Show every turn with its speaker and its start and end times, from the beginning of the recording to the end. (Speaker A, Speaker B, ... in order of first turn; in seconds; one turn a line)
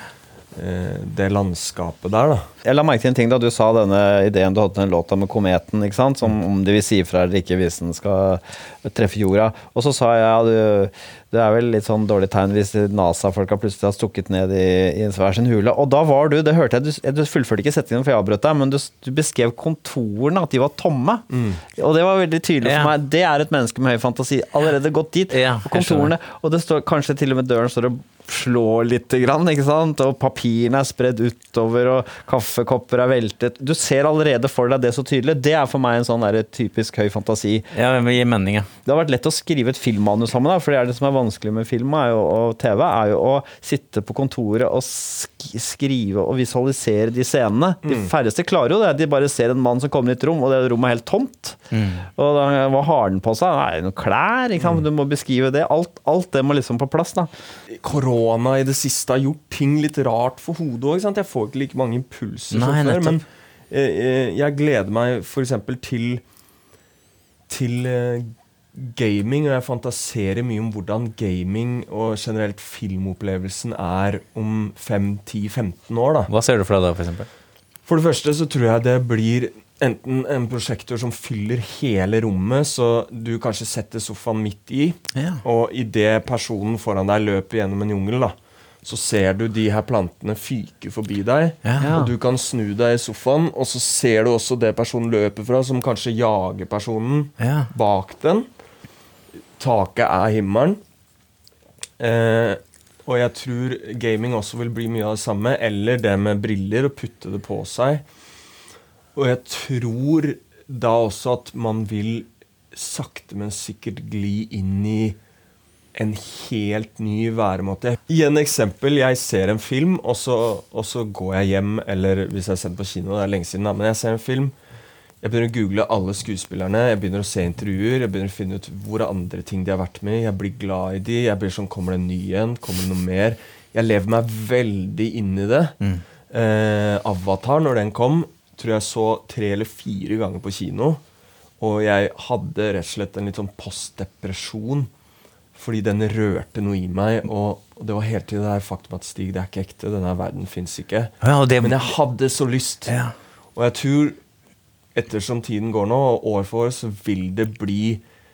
Speaker A: 0.5-2.5
Speaker B: 2.6-37.7
Speaker A: 21.3-21.6
Speaker C: 22.6-22.9
Speaker C: 25.3-26.1
Speaker C: 37.7-38.7
Speaker B: 38.9-51.6
Speaker A: 47.9-48.1
Speaker C: 51.7-52.1
Speaker B: 52.2-57.3
Speaker A: 57.7-66.2
Speaker C: 62.5-63.2
Speaker A: 67.5-76.3
Speaker C: 76.3-77.3
Speaker A: 77.9-98.5
Speaker C: 85.2-85.4
Speaker B: 91.8-92.1
Speaker C: 97.4-97.7
Speaker A: 99.6-100.8
Speaker A: 102.0-108.0
Speaker A: 109.2-115.2
Speaker A: 116.0-124.5
Speaker A: 125.2-135.8
Speaker A: 136.3-141.0
Speaker A: 141.6-144.9
Speaker A: 145.6-153.0
Speaker C: 151.2-151.8
Speaker C: 152.9-153.1
Speaker A: 153.6-154.2
Speaker A: 154.9-158.0